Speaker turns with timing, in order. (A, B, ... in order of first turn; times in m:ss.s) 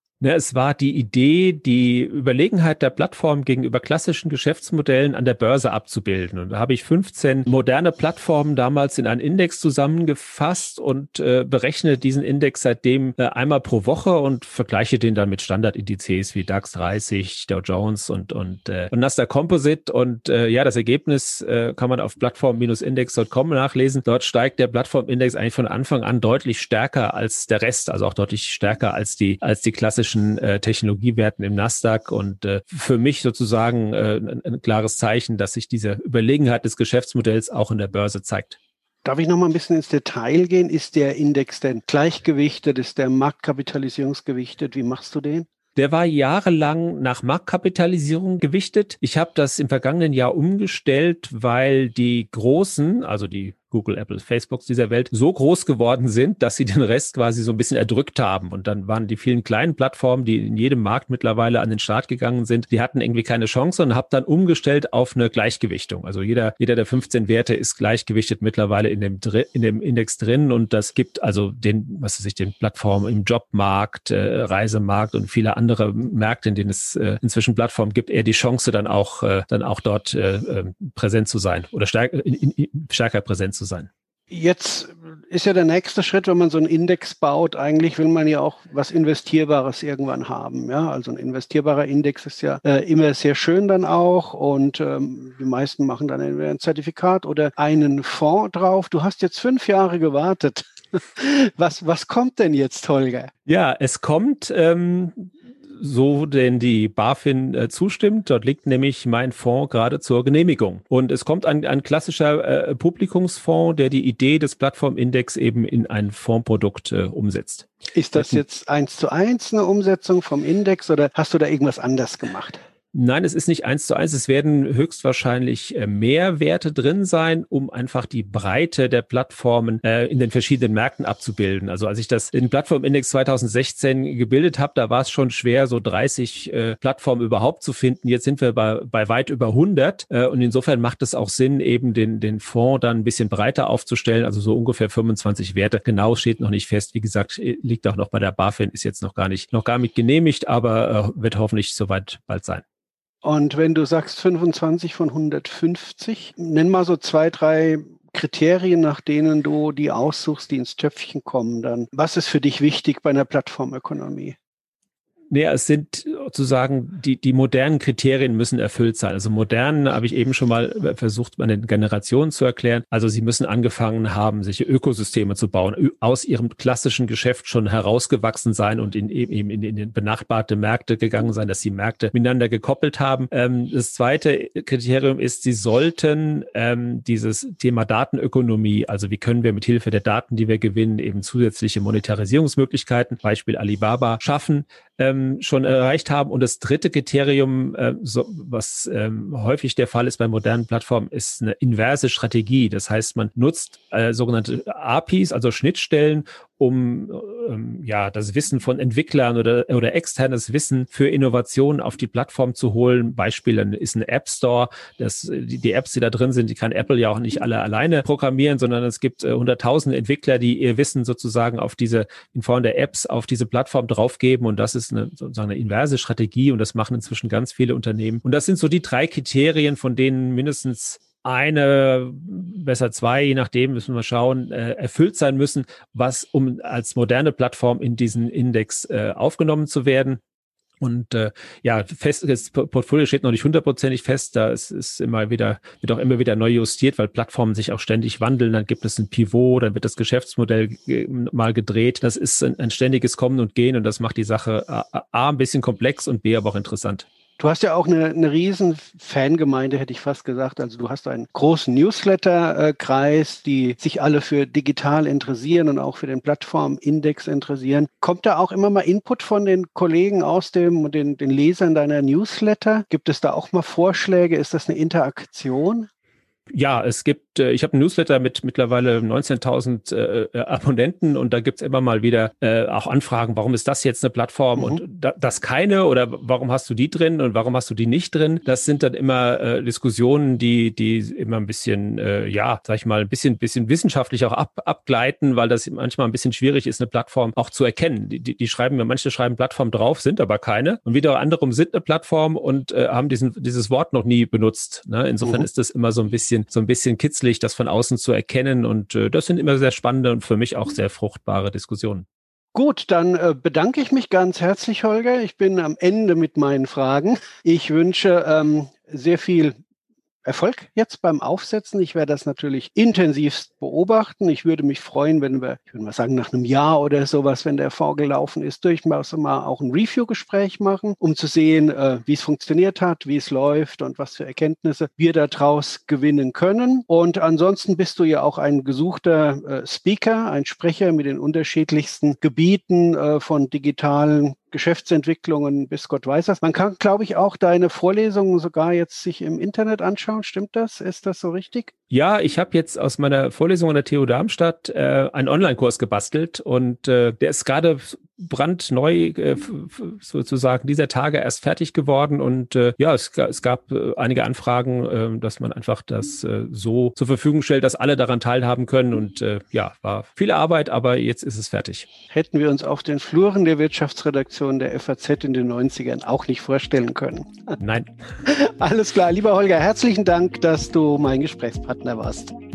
0:00.2-0:38.6 A
0:39.0-0:45.5 B
0:45.8-1:23.9 A
1:24.3-1:43.3 B
1:43.5-1:58.4 A
1:57.9-2:02.6 B
2:02.9-2:32.6 A
2:33.2-2:44.4 B
2:45.3-4:00.2 A
4:00.8-4:17.0 A
4:17.4-4:35.9 B
4:36.5-5:12.0 A
5:12.5-5:19.5 B
5:20.2-5:51.7 B
5:51.9-6:11.9 A
6:12.1-6:17.6 B
6:17.6-6:17.9 A
6:18.2-6:22.3 B